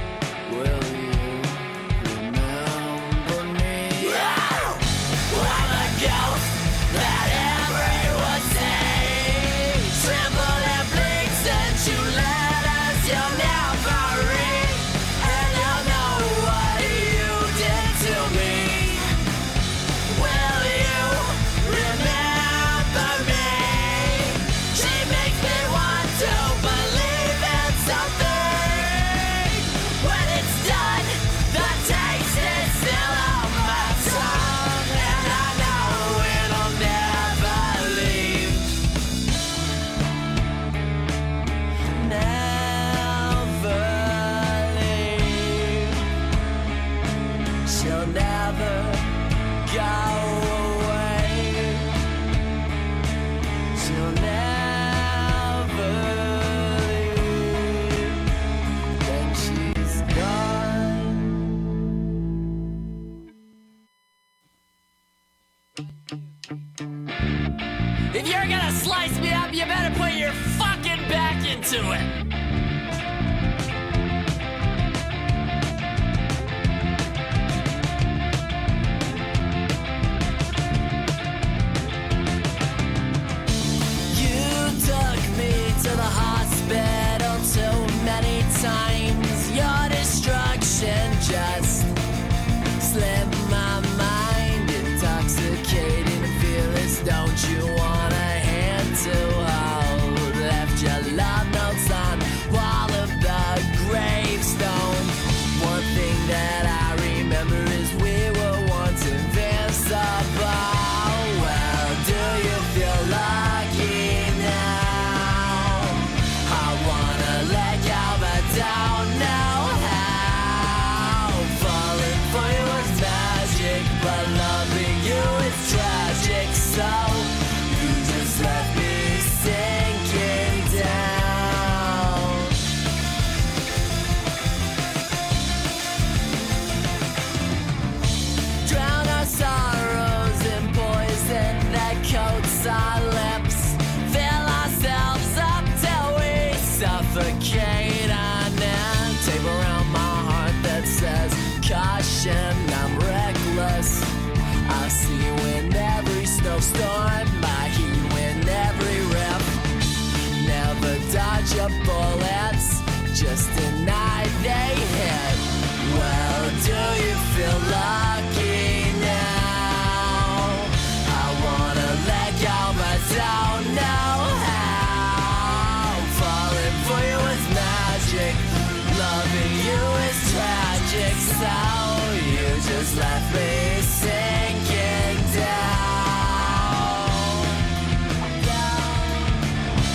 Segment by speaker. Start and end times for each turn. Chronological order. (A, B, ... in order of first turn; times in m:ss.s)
0:00.4-0:19.1 A
0:20.1-0:38.8 A
0:41.9-0:46.0 A
0:47.6-0:49.1 A
0:49.6-0:51.9 A
0:53.8-0:58.2 A
0:59.0-1:01.4 A
1:08.1-1:12.1 A
1:24.1-1:31.9 A
1:32.8-2:12.6 A
2:18.6-2:34.1 A
2:34.6-2:39.7 A
2:40.3-3:07.6 A
3:08.3-3:09.5 A